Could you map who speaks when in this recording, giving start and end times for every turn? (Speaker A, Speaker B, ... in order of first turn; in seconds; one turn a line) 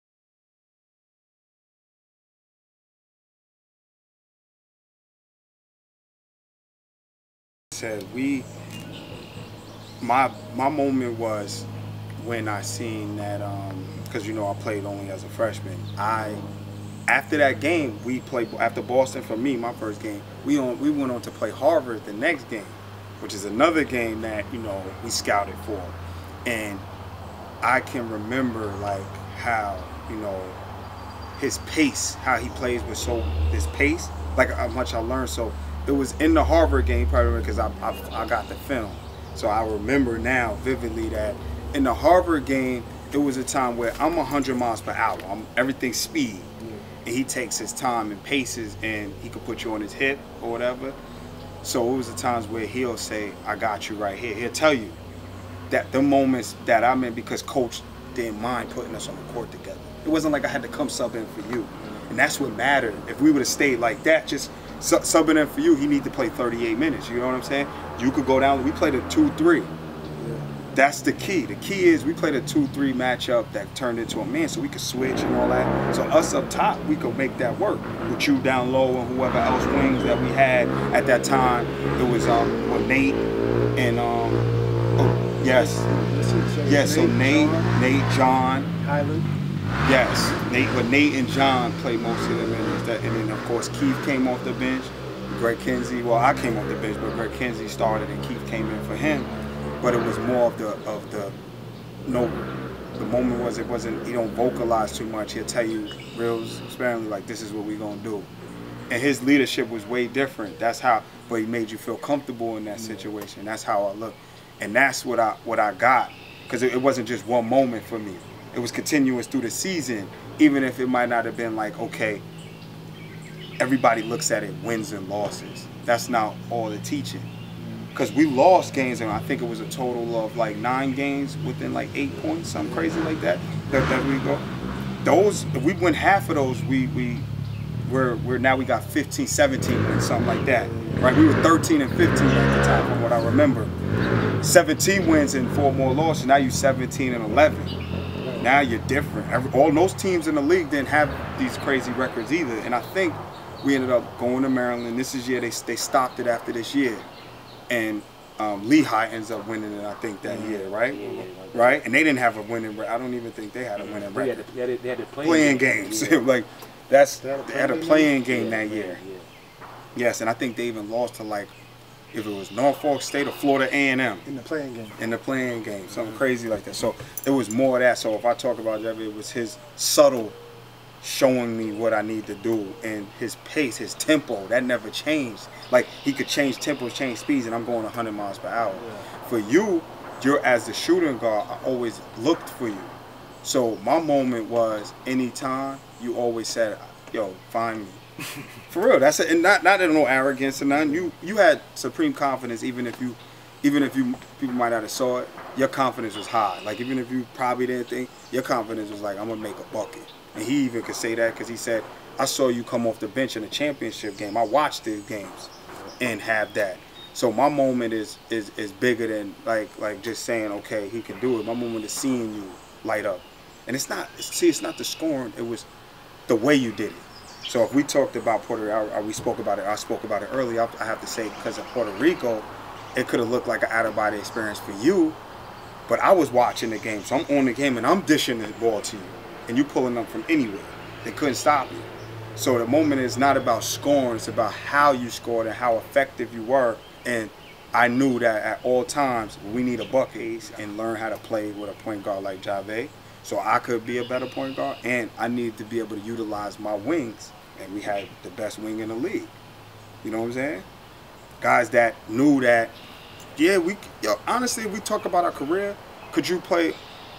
Speaker A: 7.7-8.5
Speaker A: 10.0-16.4
Speaker A: 17.1-26.9
Speaker A: 27.6-30.6
Speaker A: 31.4-46.5
Speaker B: 46.6-46.8
Speaker A: 47.0-51.0
Speaker A: 51.6-55.0
Speaker A: 55.7-69.7
Speaker B: 70.2-70.5
Speaker A: 70.7-83.2
Speaker A: 83.8-85.8
Speaker B: 85.4-87.8
Speaker A: 86.6-88.7
Speaker B: 88.8-89.3
Speaker A: 89.8-101.3
Speaker A: 102.0-102.4
Speaker A: 103.0-108.3
Speaker A: 108.9-122.2
Speaker B: 112.8-113.0
Speaker A: 123.6-127.3
Speaker B: 127.6-127.9
Speaker A: 127.9-134.4
Speaker B: 132.6-132.9
Speaker A: 135.0-137.3
Speaker A: 137.8-143.7
Speaker B: 140.5-141.5
Speaker A: 144.4-147.7
Speaker B: 148.2-148.5
Speaker A: 148.4-157.1
Speaker A: 157.7-164.4
Speaker C: 160.3-161.8
Speaker C: 163.8-166.3
Speaker A: 165.2-169.0
Speaker B: 167.2-168.2
Speaker C: 168.2-169.3
Speaker A: 169.9-171.5
Speaker A: 172.1-174.3
Speaker B: 174.2-175.0
Speaker A: 175.0-180.4
Speaker A: 181.0-192.9
Speaker B: 188.8-189.0
Speaker A: 193.4-198.0
Speaker A: 198.7-225.7
Speaker A: 226.3-235.2
Speaker A: 235.9-259.3
Speaker A: 260.0-260.6
Speaker A: 261.4-262.8
Speaker A: 263.4-266.8